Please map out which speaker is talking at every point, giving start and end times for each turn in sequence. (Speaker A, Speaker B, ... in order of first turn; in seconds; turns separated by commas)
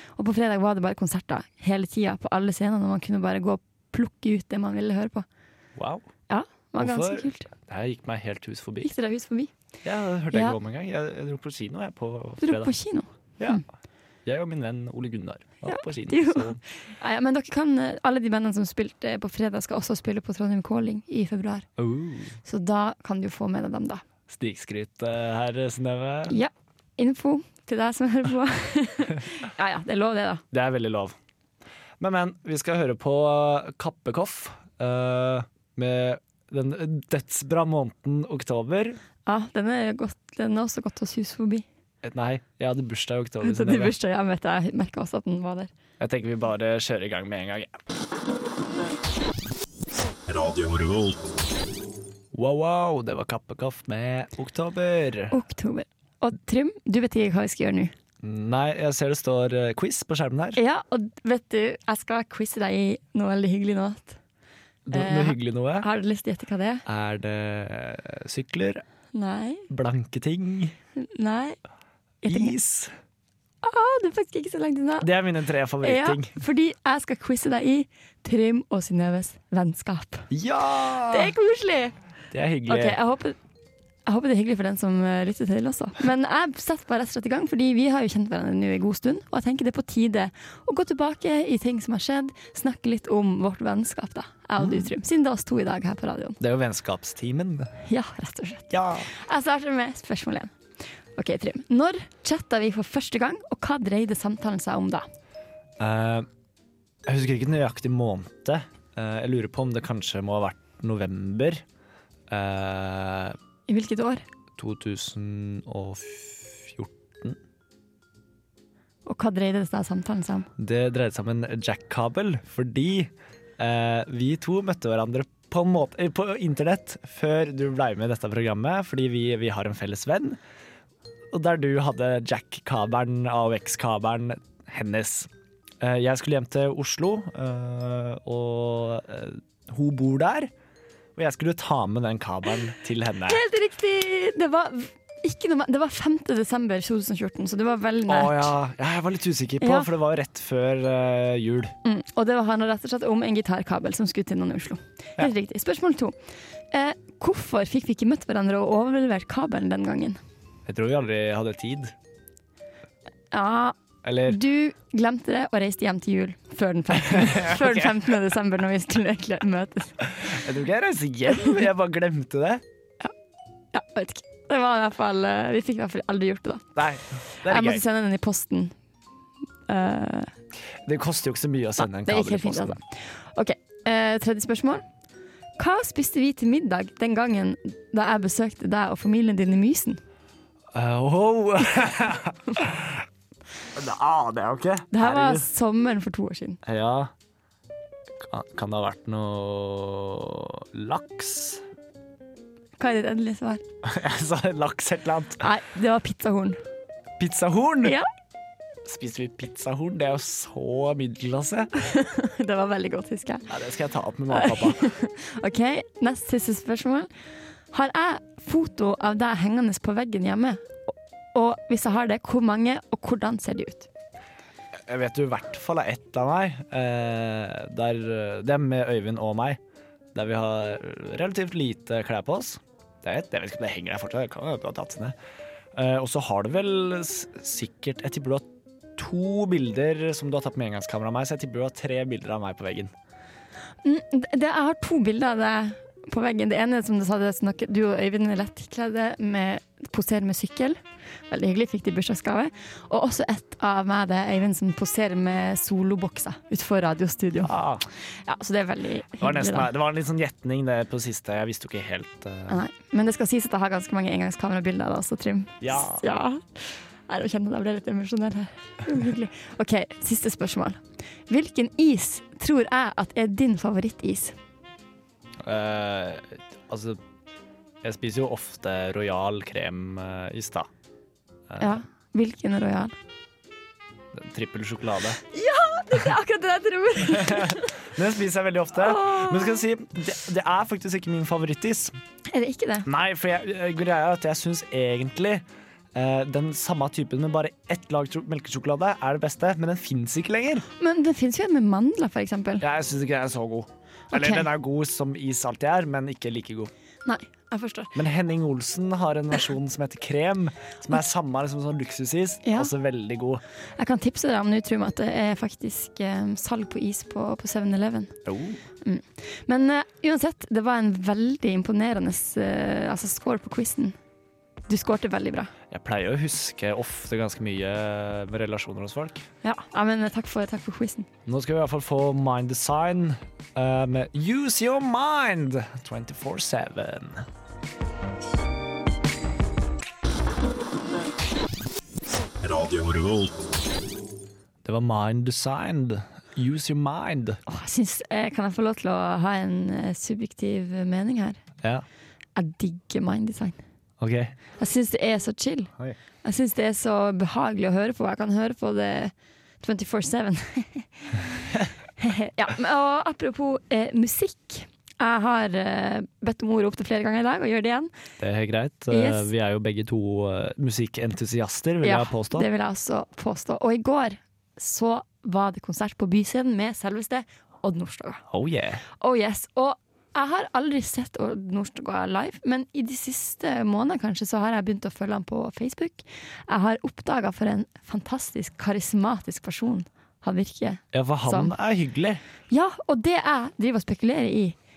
Speaker A: 0.1-5.2, Speaker B: 5.8-6.0, Speaker A: 6.3-7.5, Speaker B: 6.8-8.9, Speaker A: 8.8-9.5, Speaker B: 9.8-12.7, Speaker A: 10.3-10.6, Speaker A: 12.4-13.6, Speaker B: 14.2-16.6, Speaker A: 15.7-21.7, Speaker B: 21.8-22.4, Speaker A: 22.4-24.0, Speaker B: 24.3-26.4, Speaker A: 26.3-30.4, Speaker B: 30.5-31.1, Speaker B: 32.0-39.0, Speaker A: 39.2-41.6, Speaker B: 42.0-43.9, Speaker A: 43.4-45.7, Speaker B: 46.0-47.8, Speaker C: 50.3-51.3, Speaker B: 52.3-55.3, Speaker A: 55.3-57.9, Speaker B: 58.2-60.6, Speaker A: 60.5-64.2, Speaker B: 64.8-65.9, Speaker A: 64.9-66.8, Speaker B: 66.8-68.8, Speaker A: 69.1-69.7, Speaker B: 69.7-70.7, Speaker A: 71.0-71.6, Speaker A: 72.2-72.5, Speaker B: 72.3-72.9, Speaker A: 73.6-75.1, Speaker B: 75.0-76.4, Speaker A: 75.8-80.3, Speaker B: 80.3-81.3, Speaker A: 81.0-81.9, Speaker B: 82.3-83.0, Speaker A: 82.7-83.4, Speaker A: 84.0-96.4, Speaker B: 94.6-94.8, Speaker B: 96.4-97.7, Speaker A: 97.8-100.5, Speaker B: 98.7-99.1, Speaker A: 101.2-105.0, Speaker B: 105.8-106.3, Speaker B: 107.0-111.6, Speaker B: 112.3-113.4, Speaker A: 113.7-114.2, Speaker B: 114.6-117.4, Speaker A: 119.0-120.5, Speaker B: 120.6-130.4, Speaker B: 131.3-135.3, Speaker B: 135.8-140.5, Speaker B: 141.2-143.4, Speaker A: 143.3-148.5, Speaker B: 148.1-151.7, Speaker A: 149.6-149.9, Speaker A: 151.8-156.2, Speaker A: 156.7-160.2, Speaker B: 160.7-161.9, Speaker A: 163.3-170.1, Speaker B: 164.0-164.4, Speaker B: 166.9-168.1, Speaker B: 170.0-172.6, Speaker A: 173.7-176.7, Speaker B: 176.8-177.8, Speaker A: 177.4-178.7, Speaker A: 179.7-180.3, Speaker B: 180.8-182.8, Speaker A: 181.8-184.8, Speaker A: 185.6-190.0, Speaker B: 190.7-193.0, Speaker B: 193.7-195.5, Speaker A: 194.9-196.6, Speaker B: 196.6-197.1, Speaker B: 198.2-201.6, Speaker A: 202.8-203.6, Speaker B: 203.8-205.4, Speaker A: 205.4-206.6, Speaker B: 207.2-208.0, Speaker B: 208.8-211.7, Speaker A: 211.8-213.5, Speaker B: 213.5-214.9, Speaker A: 214.3-217.1, Speaker A: 217.7-223.9, Speaker B: 224.9-229.6, Speaker B: 230.1-235.1, Speaker B: 235.7-242.9, Speaker A: 243.8-257.5, Speaker B: 257.4-257.9, Speaker A: 258.1-259.7, Speaker B: 259.2-262.6, Speaker A: 262.5-274.4, Speaker B: 265.6-266.0, Speaker B: 275.4-277.0, Speaker B: 277.8-280.7, Speaker B: 281.5-281.8, Speaker A: 281.6-282.9, Speaker B: 284.1-285.2, Speaker A: 285.3-287.8, Speaker B: 287.1-291.9, Speaker A: 288.8-289.6, Speaker A: 292.3-292.9, Speaker B: 292.9-295.4, Speaker B: 295.9-300.6, Speaker A: 300.8-302.6, Speaker B: 302.6-306.7, Speaker A: 304.1-304.5, Speaker A: 307.0-307.9, Speaker B: 307.9-313.4, Speaker A: 312.4-312.7, Speaker A: 313.8-318.1, Speaker B: 318.2-318.6, Speaker A: 318.8-323.9, Speaker A: 324.7-325.5, Speaker B: 325.7-329.2, Speaker A: 329.4-331.1, Speaker B: 331.2-337.3, Speaker C: 342.4-343.4, Speaker B: 344.6-347.4, Speaker A: 347.5-351.4, Speaker A: 352.4-353.6, Speaker B: 354.0-354.3, Speaker A: 354.6-355.7, Speaker A: 356.2-361.3, Speaker A: 362.0-367.9, Speaker B: 368.2-372.5, Speaker A: 368.9-369.3, Speaker A: 371.8-378.2, Speaker B: 378.3-378.8, Speaker A: 378.9-391.5, Speaker B: 390.9-392.2, Speaker A: 392.5-394.6